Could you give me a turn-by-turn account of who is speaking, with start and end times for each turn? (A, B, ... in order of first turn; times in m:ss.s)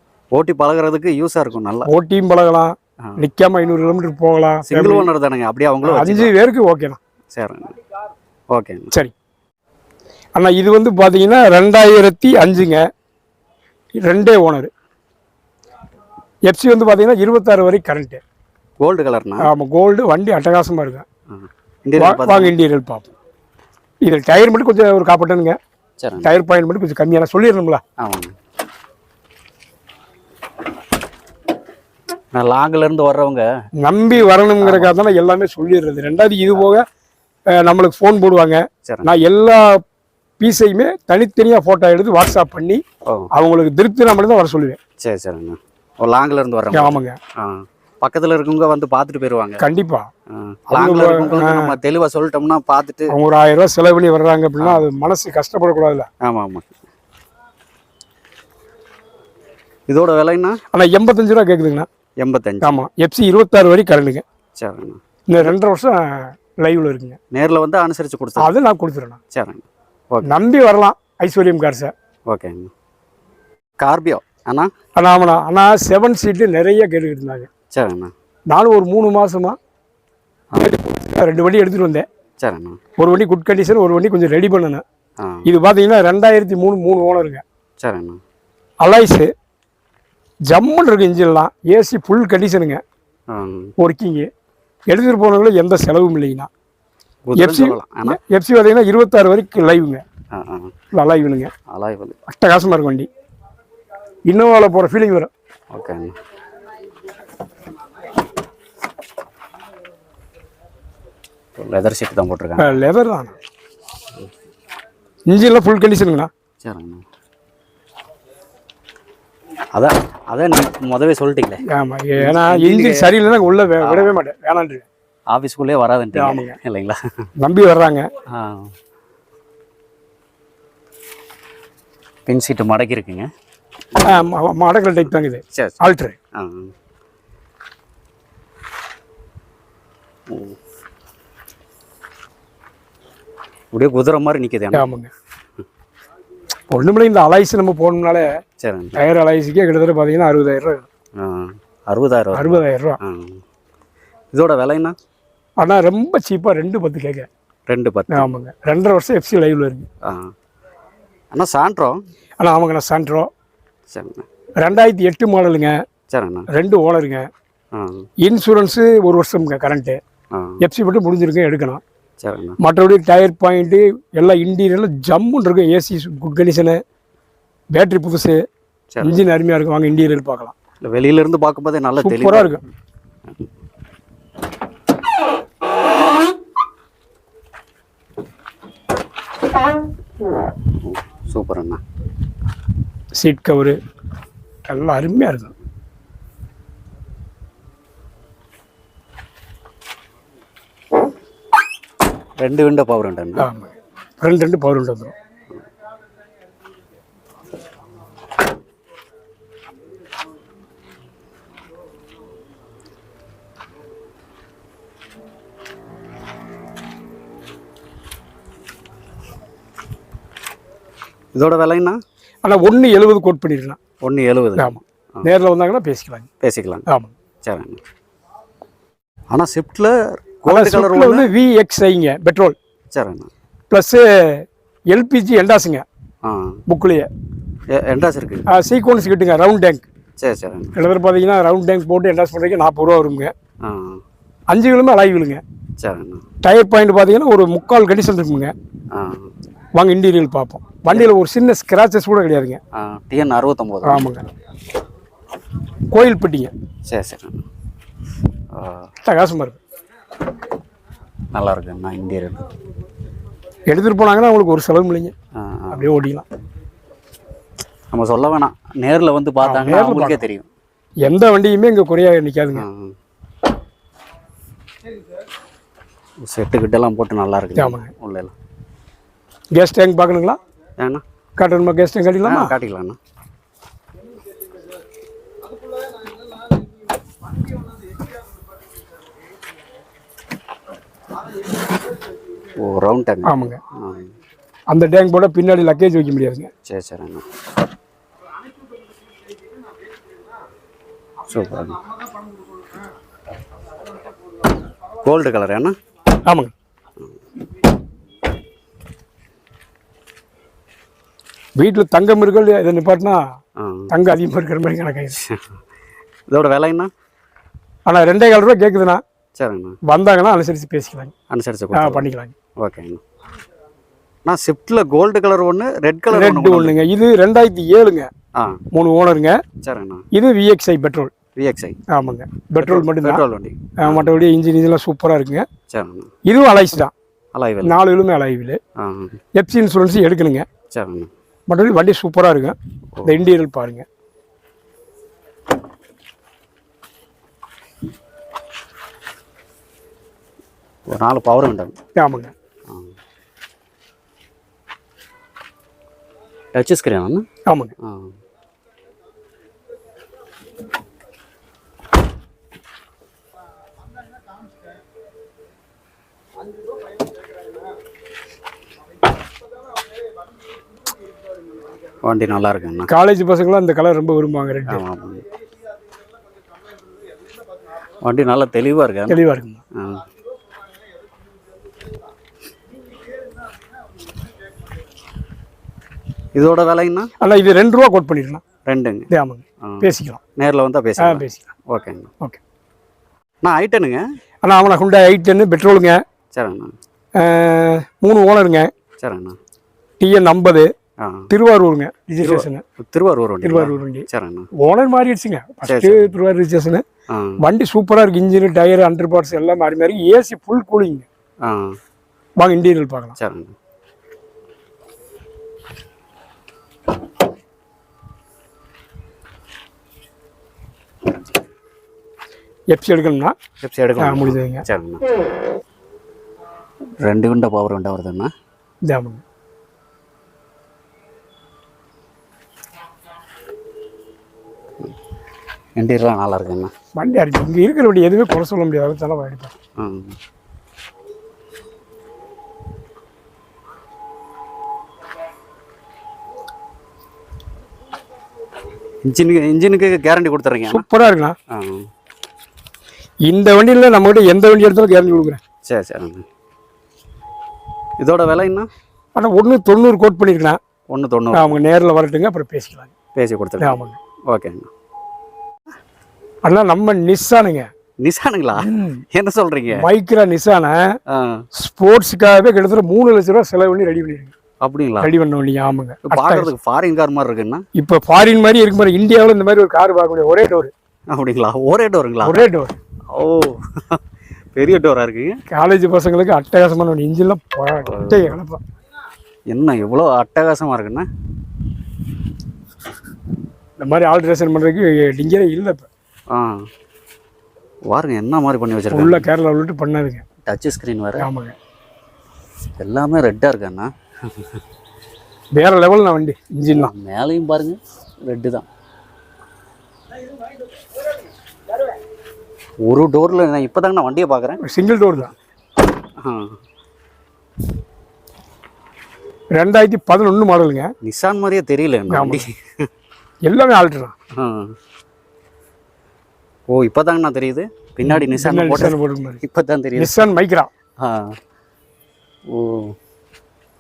0:00.3-0:01.9 A
0:01.9-0:05.1 B
0:04.6-0:06.3 A
0:05.8-0:07.0 B
0:07.3-0:07.8 A
0:08.5-0:08.9 A
0:10.4-0:12.8 B
0:14.0-0:14.7 B
0:16.5-0:18.2 B
0:18.8-0:19.5 A
0:19.4-0:21.1 B
0:21.3-0:22.6 A
0:22.0-0:23.1 B
0:24.0-0:25.6 B
0:26.0-0:26.3 A
0:26.2-0:27.8 B
0:28.0-0:28.3 A
0:32.3-0:33.5 A
0:33.8-0:36.8 B
0:34.6-0:34.9 A
0:37.5-0:39.8 B
0:38.8-0:39.1 A
0:40.4-0:42.8 B
0:43.3-0:44.8 B
0:45.0-0:49.6 A
0:46.7-0:47.2 B
0:49.6-0:50.1 B
0:50.3-0:53.1 A
0:50.7-0:51.7 B
0:53.1-0:56.1 B
0:54.6-0:54.9 A
0:56.2-0:56.8 A
0:59.9-1:00.6 A
1:00.7-1:01.9 B
1:02.2-1:02.8 A
1:02.6-1:04.2 B
1:04.6-1:05.6 A
1:05.3-1:07.2 B
1:07.3-1:08.5 A
1:08.4-1:09.2 B
1:09.3-1:10.3 A
1:10.2-1:11.9 B
1:12.3-1:12.7 A
1:13.8-1:14.7 A
1:15.0-1:17.5 B
1:17.7-1:18.1 A
1:18.5-1:19.6 B
1:20.6-1:22.1 B
1:22.4-1:22.8 A
1:23.0-1:24.8 B
1:25.2-1:25.5 A
1:25.4-1:27.4 B
1:27.8-1:28.2 A
1:28.8-1:29.3 B
1:30.5-1:32.8 B
1:33.3-1:33.7 A
1:33.8-1:34.3 B
1:34.9-1:36.5 B
1:37.3-1:38.2 A
1:37.4-1:40.0 B
1:40.3-1:40.7 A
1:40.9-1:41.5 B
1:41.7-1:42.2 A
1:42.3-1:43.1 B
1:44.3-1:45.3 B
1:45.7-1:46.2 A
1:51.6-1:52.7 A
1:52.6-1:53.4 B
1:55.3-1:56.3 B
1:56.6-1:57.0 A
1:59.8-2:01.6 A
2:01.7-2:04.9 B
2:02.2-2:03.1 A
2:03.8-2:04.1 A
2:05.3-2:07.0 A
2:06.1-2:06.6 B
2:07.4-2:08.1 B
2:08.3-2:08.7 A
2:12.3-2:13.3 A
2:14.0-2:16.2 B
2:15.5-2:15.8 A
2:16.4-2:16.7 A
2:20.3-2:20.6 A
2:23.7-2:24.9 A
2:24.7-2:25.1 B
2:26.7-2:28.3 B
2:28.6-2:29.0 A
2:29.0-2:30.9 B
2:31.2-2:33.4 A
2:32.3-2:33.0 B
2:34.3-2:35.0 A
2:35.6-2:37.3 B
2:37.7-2:38.3 A
2:38.1-2:39.9 B
2:40.0-2:40.3 A
2:41.3-2:42.0 A
2:42.4-2:43.3 B
2:43.9-2:44.3 A
2:44.6-2:45.8 B
2:46.1-2:46.5 A
2:46.5-2:47.3 B
2:47.7-2:48.0 A
2:48.2-2:50.0 B
2:50.3-2:50.6 A
2:50.6-2:51.8 B
2:52.2-2:52.6 A
2:52.6-2:56.8 B
2:57.7-2:58.4 B
2:58.9-2:59.2 A
2:59.0-3:00.6 B
3:00.8-3:02.6 A
3:02.0-3:02.6 B
3:10.8-3:11.8 A
3:13.2-3:13.8 B
3:14.7-3:15.5 B
3:22.4-3:23.5 A
3:23.4-3:25.1 B
3:41.3-3:42.0 A
3:42.4-3:43.8 B
3:44.0-3:45.3 A
3:44.6-3:46.3 B
3:46.4-3:46.8 A
3:46.9-3:47.1 B
3:47.4-3:47.8 A
3:49.3-3:51.3 A
3:50.5-3:52.6 B
3:52.9-3:53.3 A
3:53.7-3:55.8 B
3:56.2-3:56.6 A
3:56.7-3:57.1 B
3:57.7-3:58.5 A
3:58.5-3:59.9 B
4:00.2-4:00.8 A
4:00.8-4:03.3 B
4:03.6-4:04.0 A
4:04.5-4:05.4 B
4:05.8-4:06.2 A
4:06.4-4:08.5 B
4:08.9-4:09.3 A
4:09.8-4:12.6 B
4:12.7-4:14.1 A
4:13.8-4:14.2 B
4:15.9-4:16.5 B
4:16.9-4:17.4 A
4:18.5-4:18.9 A
4:19.0-4:19.6 B
4:21.3-4:22.5 A
4:23.7-4:25.1 B
4:25.4-4:25.9 A
4:25.7-4:26.3 B
4:27.9-4:30.5 A
4:29.4-4:30.2 B
4:31.0-4:32.6 B
4:32.6-4:33.0 A
4:36.2-4:38.3 A
4:37.6-4:37.9 B
4:39.6-4:40.4 B
4:40.8-4:41.0 A
4:41.4-4:42.5 B
4:42.2-4:43.0 A
4:52.5-4:54.1 A
4:53.2-4:53.6 B
4:54.7-4:56.5 B
4:56.7-4:57.2 A
5:01.3-5:01.9 A
5:05.0-5:05.8 A
5:06.2-5:06.5 B
5:11.6-5:13.2 B
5:13.6-5:13.9 A
5:13.9-5:15.2 B
5:15.2-5:15.5 A
5:16.3-5:16.9 A
5:17.9-5:19.0 B
5:19.4-5:19.8 A
5:19.8-5:21.1 B
5:21.3-5:22.1 A
5:21.7-5:22.3 B
5:22.6-5:23.0 A
5:24.2-5:26.8 A
5:26.1-5:28.1 B
5:28.7-5:29.4 B
5:29.6-5:30.1 A
5:30.1-5:31.1 B
5:31.4-5:31.8 A
5:31.9-5:33.2 B
5:32.6-5:34.2 A
5:33.8-5:35.5 B
5:35.7-5:36.1 A
5:36.3-5:36.9 B
5:37.3-5:37.8 A
5:37.6-5:38.6 B
5:38.8-5:39.2 A
5:39.4-5:40.5 B
5:40.7-5:41.1 A
5:41.5-5:43.9 B
5:50.9-5:51.7 A
5:52.0-5:52.3 B
5:56.5-5:57.2 A
5:57.5-5:57.7 B
5:57.8-5:58.1 A
6:12.0-6:12.9 A
6:12.9-6:14.8 B
6:14.7-6:15.2 A
6:18.0-6:19.2 A
6:19.1-6:19.6 B
6:19.7-6:20.1 A
6:26.3-6:27.1 A
6:27.2-6:28.4 B
6:28.6-6:29.1 A
6:29.1-6:30.2 B
6:29.6-6:32.1 A
6:31.0-6:31.5 B
6:33.4-6:34.0 A
6:34.4-6:36.0 B
6:36.3-6:36.7 A
6:37.2-6:38.7 B
6:39.0-6:39.4 A
6:40.0-6:40.7 B
6:41.0-6:41.3 A
6:41.3-6:42.6 B
6:42.2-6:44.5 A
6:43.4-6:46.8 B
6:45.6-6:46.2 A
6:47.1-6:47.4 A
6:47.4-6:51.1 B
6:51.4-6:51.8 A
6:52.4-6:53.2 B
6:53.2-6:53.6 A
7:02.7-7:03.4 B
7:03.6-7:05.0 A
7:04.0-7:04.6 B
7:07.0-7:08.3 A
7:08.8-7:09.2 B
7:15.8-7:16.7 A
7:17.0-7:19.6 B
7:19.8-7:20.2 A
7:29.0-7:30.9 A
7:30.7-7:31.4 B
7:31.5-7:31.9 A
7:33.3-7:35.4 B
7:35.7-7:36.2 A
7:38.0-7:38.7 A
7:39.2-7:40.6 B
7:40.9-7:41.6 A
7:41.3-7:42.9 B
7:43.2-7:44.7 A
7:43.6-7:44.0 B
7:46.4-7:47.7 B
7:48.0-7:49.8 A
7:48.6-7:49.0 B
7:49.7-7:51.0 B
7:51.1-7:51.4 A
7:51.6-7:54.3 B
7:54.6-7:55.1 A
7:55.0-7:56.5 B
7:56.1-7:57.6 A
7:57.8-8:00.7 B
8:01.1-8:02.5 A
8:02.2-8:02.8 B
8:03.1-8:04.0 A
8:04.6-8:05.4 A
8:05.5-8:08.6 B
8:07.8-8:08.4 A
8:09.5-8:11.1 A
8:13.8-8:15.9 B
8:16.3-8:16.7 A
8:17.9-8:19.3 A
8:18.9-8:20.2 B
8:20.4-8:21.3 A
8:21.2-8:21.6 B
8:22.8-8:24.5 A
8:25.6-8:26.9 B
8:26.7-8:28.7 A
8:32.8-8:34.6 A
8:34.6-8:35.3 B
8:36.2-8:36.6 A
8:39.6-8:40.9 B
8:41.0-8:42.6 A
8:42.1-8:42.5 B
8:43.5-8:44.1 B
8:44.4-8:44.7 A
8:46.7-8:50.3 A
8:48.1-8:49.4 B
8:50.0-8:50.7 B
8:51.0-8:51.4 A
8:52.5-8:53.0 A